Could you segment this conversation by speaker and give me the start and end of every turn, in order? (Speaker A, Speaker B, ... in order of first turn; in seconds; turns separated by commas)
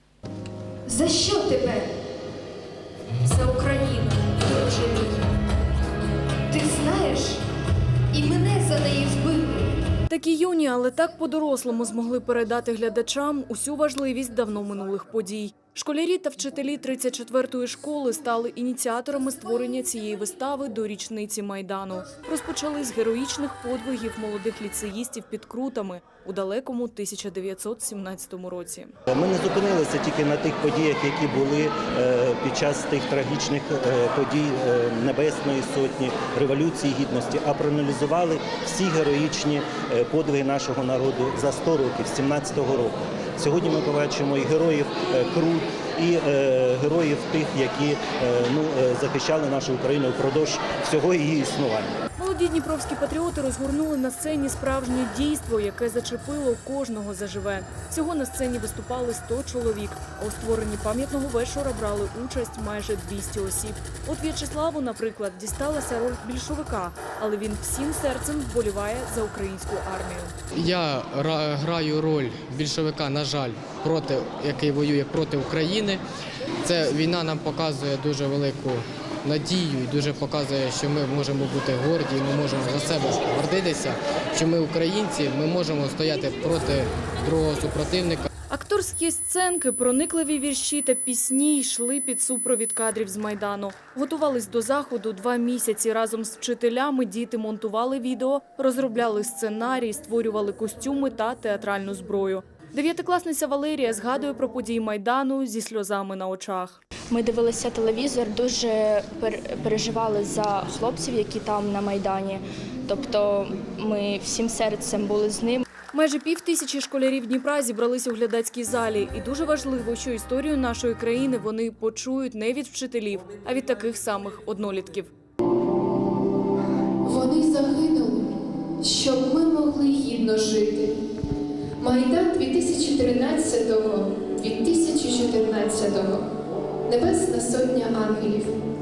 Speaker A: 0.9-1.9, Speaker B: 3.3-4.0, Speaker A: 3.3-4.8, Speaker B: 4.7-5.2, Speaker A: 6.5-7.4, Speaker B: 7.0-7.3, Speaker A: 8.1-9.4, Speaker B: 8.2-8.5, Speaker C: 10.1-28.9, Speaker D: 29.1-52.0, Speaker C: 52.2-70.3, Speaker E: 70.6-76.0, Speaker E: 76.6-88.3, Speaker C: 88.5-106.8, Speaker F: 107.1-115.6, Speaker C: 115.9-125.1, Speaker B: 127.0-131.0, Speaker B: 131.8-136.3, Speaker B: 136.9-138.6